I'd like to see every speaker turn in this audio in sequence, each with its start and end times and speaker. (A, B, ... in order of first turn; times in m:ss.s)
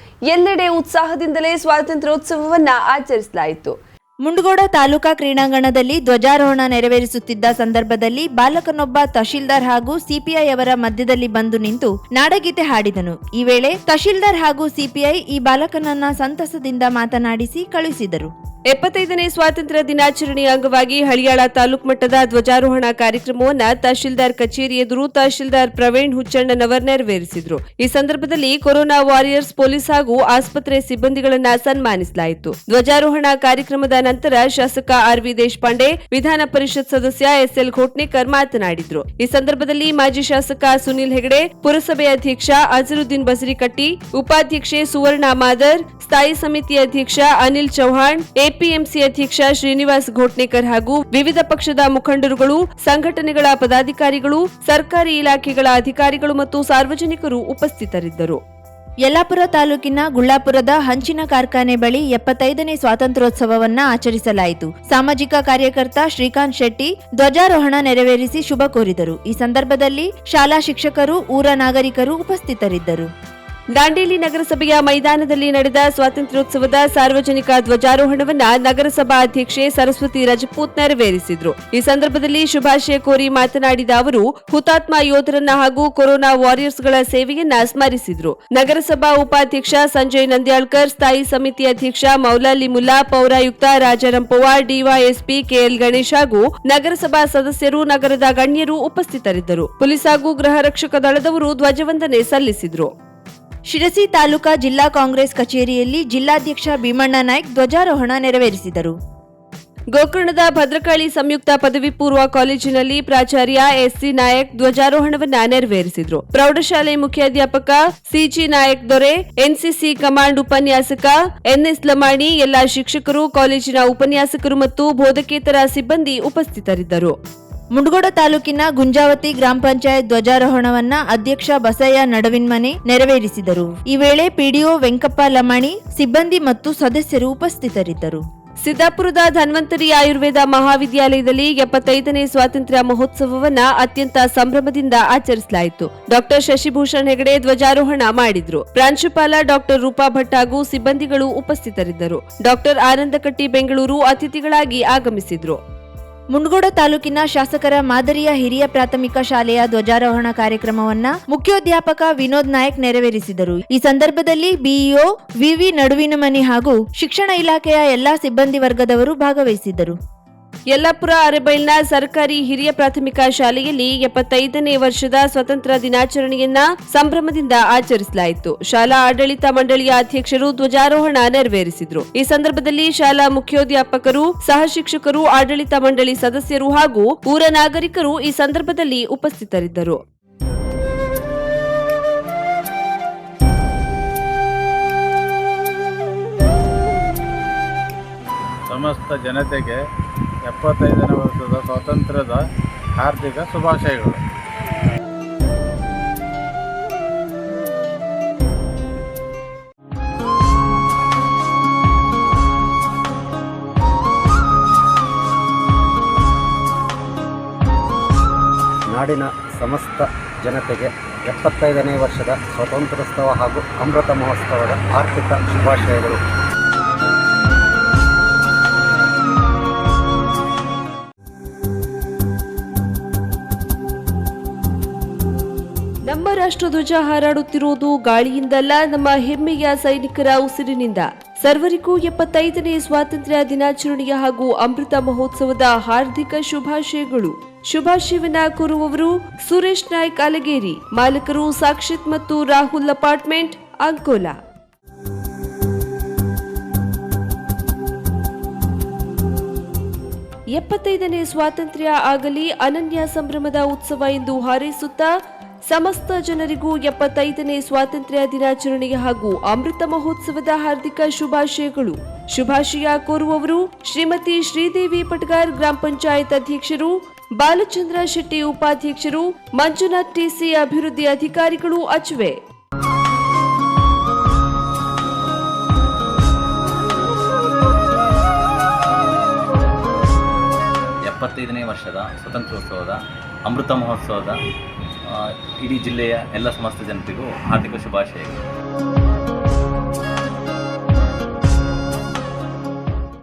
0:00.3-0:03.8 A
0:04.2-0:18.3 B
0:18.7-0:58.4 A
0:59.0-1:13.1 B
1:13.7-1:42.9 A
1:43.7-1:48.9 B
1:49.9-2:07.1 A
2:07.7-2:18.2 B
2:18.6-2:35.6 A
2:36.3-2:50.0 B
2:50.7-3:10.0 A
3:18.7-3:19.8 C
3:20.4-3:24.2 C
3:38.9-3:46.2 D
3:56.1-4:14.4 A
4:20.5-4:25.1 A
4:25.7-4:42.4 A
4:51.0-4:54.4 E
4:55.0-4:58.3 E